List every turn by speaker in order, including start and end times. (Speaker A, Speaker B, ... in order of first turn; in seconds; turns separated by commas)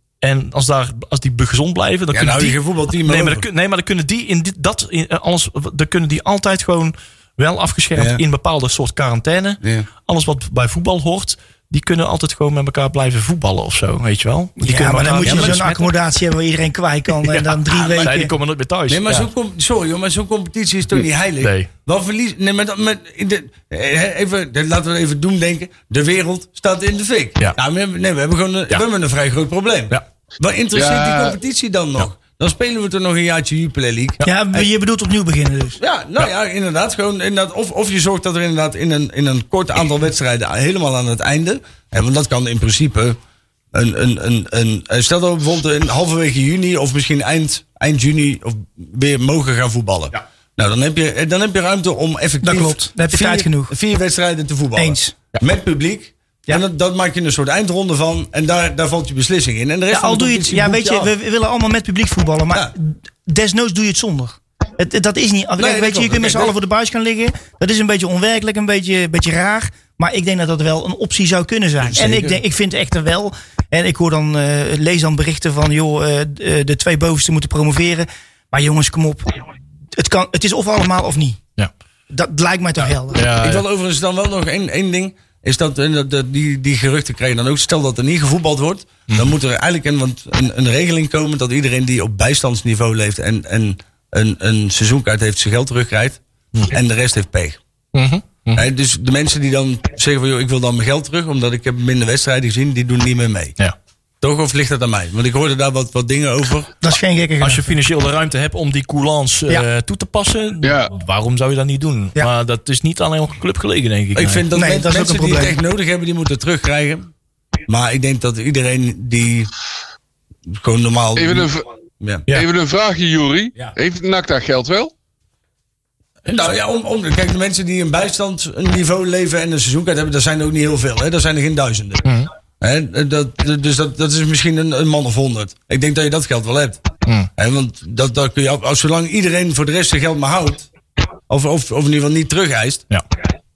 Speaker A: 0.2-15.9, Speaker B: 2.1-3.5, Speaker B: 8.0-8.2, Speaker B: 9.6-9.9, Speaker C: 14.6-18.3, Speaker B: 15.2-15.6, Speaker A: 17.2-19.3, Speaker B: 17.7-18.2, Speaker B: 18.9-34.7, Speaker A: 21.4-21.7, Speaker D: 30.7-31.4, Speaker C: 34.2-35.8, Speaker B: 35.8-43.2, Speaker B: 43.7-61.1, Speaker C: 52.4-53.8, Speaker C: 54.8-55.1, Speaker C: 59.9-79.3, Speaker B: 65.6-66.5, Speaker B: 71.9-72.4, Speaker C: 80.0-81.4, Speaker C: 82.1-83.2, Speaker A: 83.1-83.7, Speaker B: 83.4-97.6, Speaker A: 97.9-98.7, Speaker B: 98.5-103.5, Speaker B: 104.2-106.7, Speaker C: 106.8-107.7, Speaker A: 107.4-114.5, Speaker D: 110.6-110.9, Speaker B: 114.2-117.1, Speaker C: 114.5-115.6, Speaker B: 117.7-119.5, Speaker B: 120.5-122.3, Speaker D: 121.2-121.7, Speaker D: 122.3-124.9, Speaker B: 126.3-132.1, Speaker A: 132.0-132.3, Speaker B: 132.6-136.8, Speaker B: 137.4-140.7, Speaker B: 141.3-142.8